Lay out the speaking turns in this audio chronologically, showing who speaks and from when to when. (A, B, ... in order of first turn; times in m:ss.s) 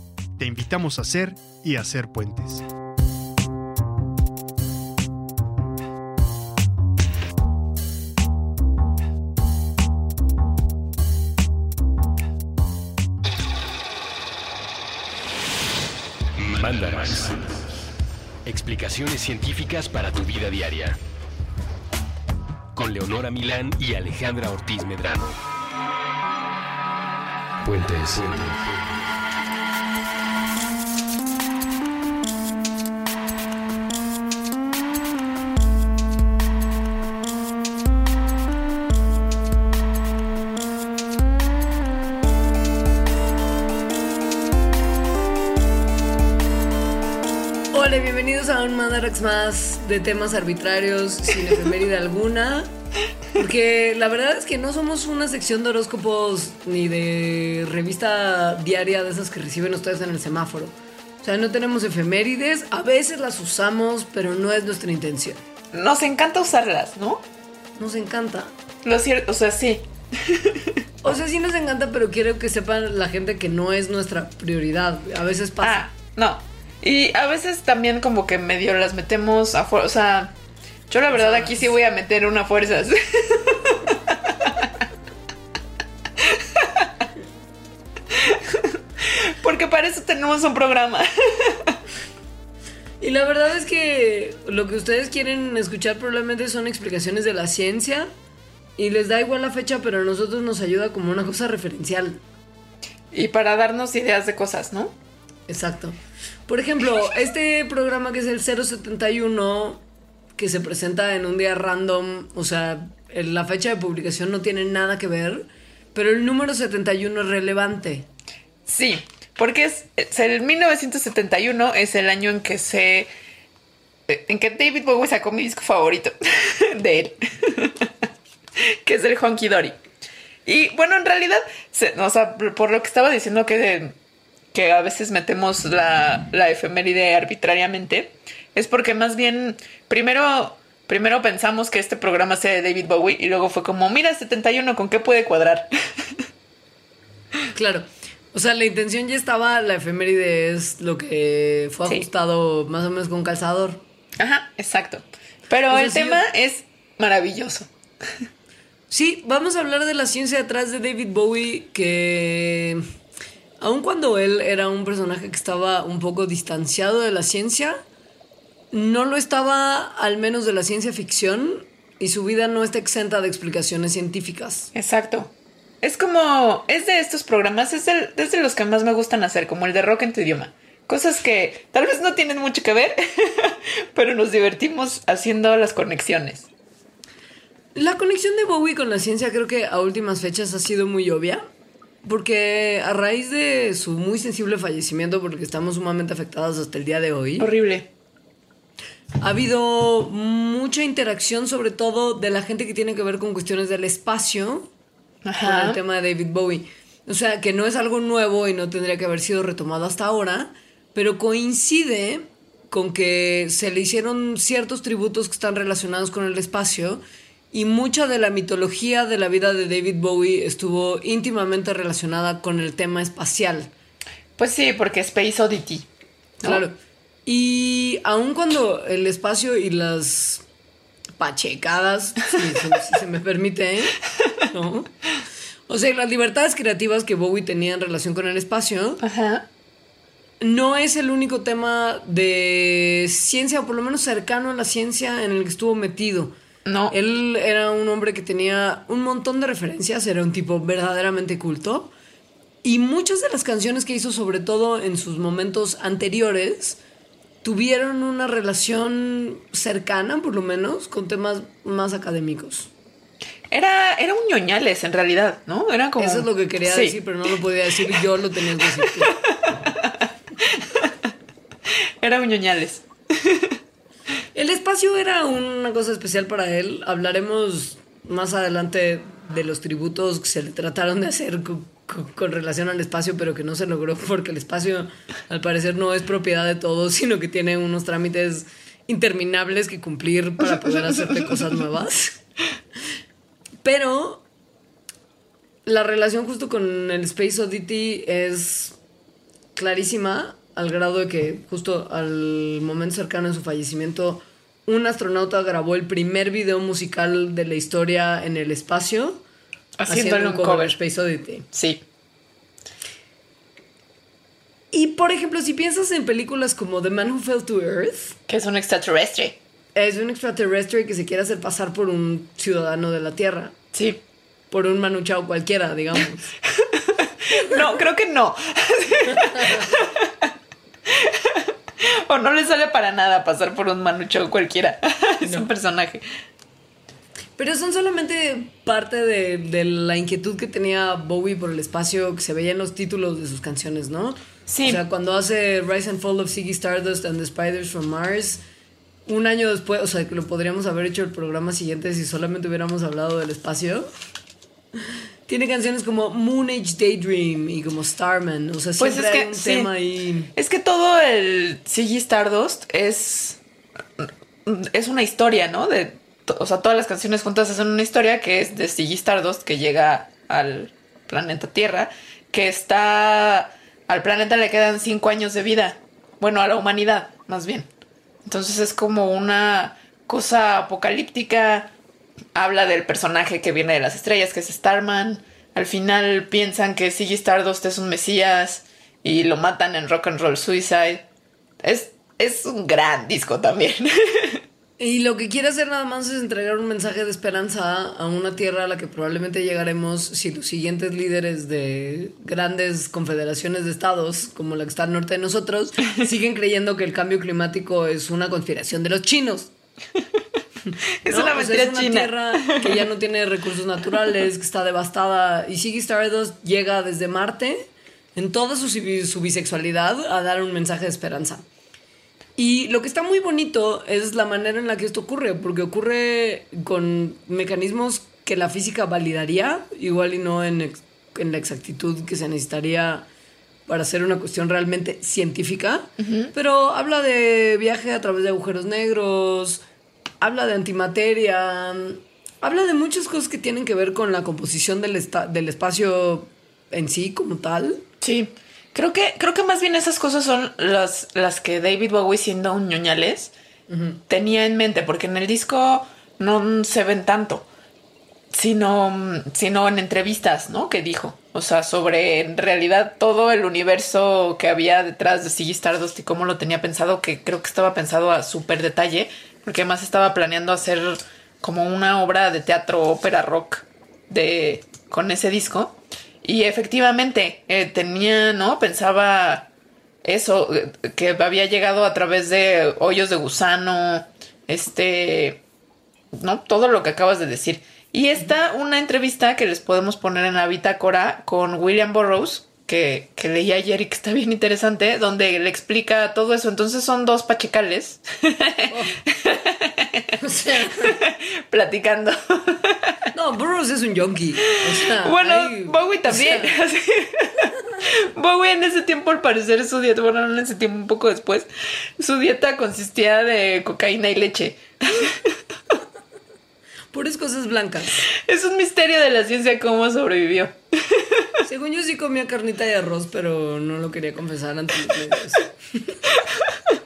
0:00.4-0:02.6 A
0:16.4-0:17.6 B
0:18.4-0:21.0 B
0:22.7-0:25.4 B
0:27.6-0:29.0 B
0:47.7-0:52.7 C
0:53.3-1:05.4 C
1:05.7-1:07.2 D
1:07.8-1:08.5 C
1:08.8-1:10.7 D
1:11.0-1:15.8 C
1:15.6-1:20.3 D
1:20.9-1:23.9 D
1:21.1-1:21.6 C
1:29.2-1:31.7 D
1:33.0-1:38.1 C
1:38.8-1:42.2 C
1:43.1-1:44.9 D
1:45.5-1:49.8 C
1:50.4-1:58.1 C
1:58.7-2:03.1 D
2:04.1-2:07.8 D
2:08.8-2:09.8 D
2:10.4-2:13.9 D
2:14.5-2:25.7 D
2:27.5-2:33.8 C
2:34.2-2:37.7 D
2:35.7-2:36.2 C
2:38.9-2:42.8 C
2:43.6-2:47.8 C
2:48.7-2:54.7 C
2:54.7-2:55.3 D
2:55.8-3:06.5 D
3:07.7-3:11.4 C
3:12.0-3:17.5 C
3:17.4-3:17.9 D
3:19.2-3:24.7 C
3:25.2-3:25.8 D
3:25.4-3:43.7 C
3:44.4-3:45.8 D
3:46.4-3:50.4 C
3:51.2-3:53.9 C
3:54.5-3:54.9 C
3:55.7-3:59.0 C
3:59.0-3:59.4 D
4:00.4-4:06.3 C
4:06.6-4:06.9 D
4:06.9-4:11.9 C
4:12.6-4:16.8 C
4:17.4-4:22.7 C
4:23.5-4:27.0 D
4:26.0-4:29.1 C
4:32.0-4:33.4 D
4:34.3-4:52.2 C
4:53.6-4:54.2 C
4:55.6-4:58.7 C
4:59.6-5:09.2 C
5:09.8-5:10.7 D
5:09.9-5:11.4 C
5:11.5-5:11.8 D
5:14.7-5:18.2 C
5:18.3-5:19.4 D
5:19.7-5:23.5 C
5:23.7-5:24.0 D
5:24.5-5:26.3 C
5:27.3-5:30.1 D
5:29.1-5:29.6 C
5:30.9-5:36.0 D
5:37.4-5:48.4 C
5:44.5-5:44.8 D
5:49.1-5:53.9 C
5:55.3-6:00.3 C
5:58.8-5:59.7 D
6:00.3-6:03.4 D
6:04.0-6:17.7 D
6:18.2-6:21.7 D
6:22.3-6:31.0 D
6:31.6-6:34.4 D
6:34.8-6:49.5 C
6:51.0-6:52.8 D
6:51.1-7:01.4 C
7:02.4-7:13.1 C
7:13.7-7:19.6 C
7:16.0-7:16.3 D
7:20.2-7:27.8 C
7:28.0-7:33.3 D
7:33.7-7:34.0 C
7:34.1-7:37.5 D
7:38.3-7:59.5 D
8:00.0-8:05.4 D
8:06.1-8:20.0 D
8:18.7-8:19.0 C
8:20.2-8:20.9 C
8:20.8-8:22.8 D
8:23.1-8:26.5 C
8:24.4-8:31.5 D
8:32.0-8:35.2 D
8:36.9-8:38.1 C
8:38.1-8:41.2 D
8:41.4-8:45.9 C